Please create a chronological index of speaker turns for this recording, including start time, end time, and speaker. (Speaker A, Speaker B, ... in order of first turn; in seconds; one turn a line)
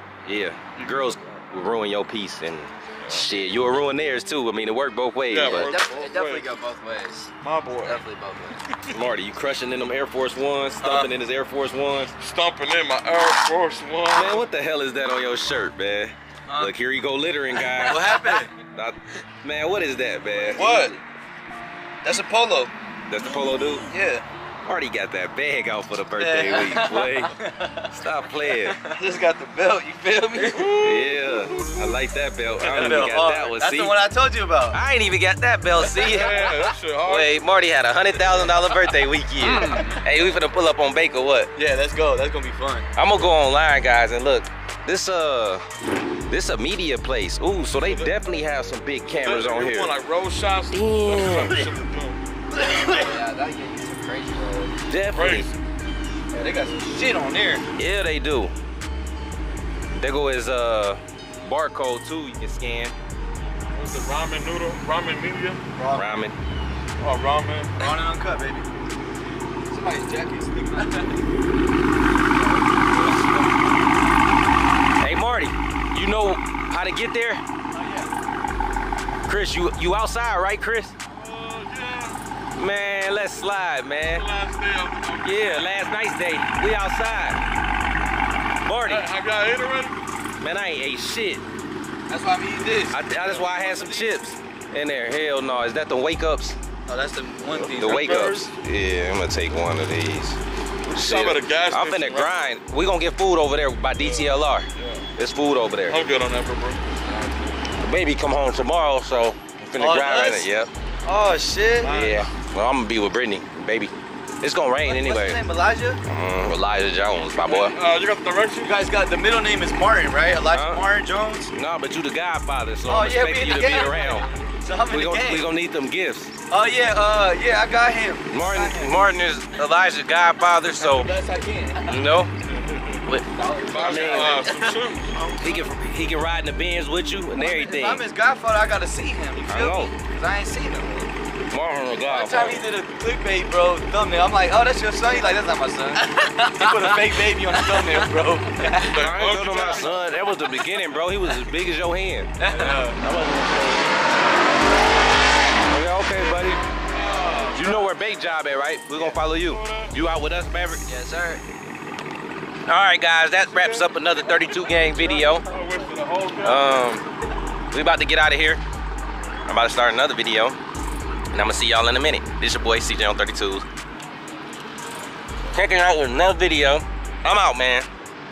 Speaker A: 0.2-5.7
Speaker B: 0.7-1.5
Speaker B: 3.0-3.5
Speaker B: 5.3-6.5
Speaker C: 5.5-8.6
Speaker B: 7.4-8.0
Speaker B: 8.7-8.9
Speaker A: 8.9-12.1
Speaker D: 10.8-11.1
Speaker B: 12.2-14.4
Speaker A: 14.1-18.2
Speaker D: 16.5-16.7
Speaker D: 17.6-18.5
Speaker A: 18.7-20.8
Speaker B: 20.5-20.9
Speaker D: 20.5-21.0
Speaker D: 22.0-22.7
Speaker A: 23.1-23.9
Speaker D: 23.9-24.2
Speaker A: 24.6-28.8
Speaker D: 26.1-27.9
Speaker D: 28.5-30.8
Speaker B: 30.4-32.0
Speaker A: 30.7-34.0
Speaker B: 32.6-33.2
Speaker D: 32.6-34.8
Speaker A: 34.7-36.5
Speaker B: 35.9-37.5
Speaker A: 37.0-41.5
Speaker D: 39.4-40.0
Speaker D: 41.5-42.9
Speaker A: 42.9-45.7
Speaker A: 46.3-49.9
Speaker B: 47.7-48.1
Speaker B: 49.2-52.2
Speaker A: 50.7-51.6
Speaker D: 52.5-53.2
Speaker C: 52.7-54.8
Speaker A: 54.9-55.5
Speaker B: 55.1-55.6
Speaker D: 56.3-57.7
Speaker A: 57.8-58.5
Speaker A: 59.9-62.9
Speaker B: 63.7-65.6
Speaker D: 65.7-66.1
Speaker A: 65.9-66.4
Speaker B: 67.0-68.0
Speaker D: 67.7-68.7
Speaker D: 69.7-71.2
Speaker D: 72.1-73.9
Speaker A: 75.0-77.4
Speaker D: 77.7-78.1
Speaker A: 79.3-80.9
Speaker B: 81.1-82.2
Speaker A: 82.5-84.3
Speaker B: 84.0-85.7
Speaker A: 85.2-87.4
Speaker A: 88.6-89.0
Speaker B: 88.9-90.0
Speaker A: 90.4-91.4
Speaker D: 92.1-93.9
Speaker A: 92.9-96.6
Speaker D: 96.8-98.5
Speaker A: 97.6-100.4
Speaker B: 97.6-98.4
Speaker B: 100.8-102.5
Speaker A: 100.9-106.0
Speaker B: 104.0-105.1
Speaker B: 105.9-107.5
Speaker A: 107.7-110.7
Speaker D: 109.8-110.5
Speaker D: 111.0-112.2
Speaker A: 111.8-115.4
Speaker B: 111.8-112.2
Speaker D: 114.8-116.0
Speaker A: 116.0-117.8
Speaker B: 117.4-118.8
Speaker D: 118.6-121.5
Speaker A: 120.5-120.8
Speaker A: 121.5-124.3
Speaker D: 122.8-125.5
Speaker B: 123.6-124.6
Speaker A: 124.9-126.3
Speaker D: 126.5-129.0
Speaker A: 128.3-131.1
Speaker D: 130.8-132.1
Speaker A: 131.8-132.3
Speaker B: 132.5-133.0
Speaker A: 133.1-134.5
Speaker D: 133.2-134.9
Speaker B: 133.7-135.5
Speaker A: 135.4-138.0
Speaker D: 137.4-141.0
Speaker A: 139.5-139.9
Speaker A: 141.5-142.7
Speaker D: 142.0-149.2
Speaker B: 148.8-150.2
Speaker A: 148.9-152.3
Speaker D: 152.4-153.0
Speaker B: 152.4-153.0
Speaker A: 153.0-154.1
Speaker A: 155.7-156.6
Speaker B: 156.8-158.2
Speaker A: 157.5-160.8
Speaker B: 159.0-160.0
Speaker C: 160.8-161.4
Speaker A: 162.7-165.4
Speaker B: 163.4-166.8
Speaker A: 166.4-167.1
Speaker A: 167.7-168.6
Speaker A: 169.4-170.6
Speaker A: 171.3-173.6
Speaker A: 175.5-177.9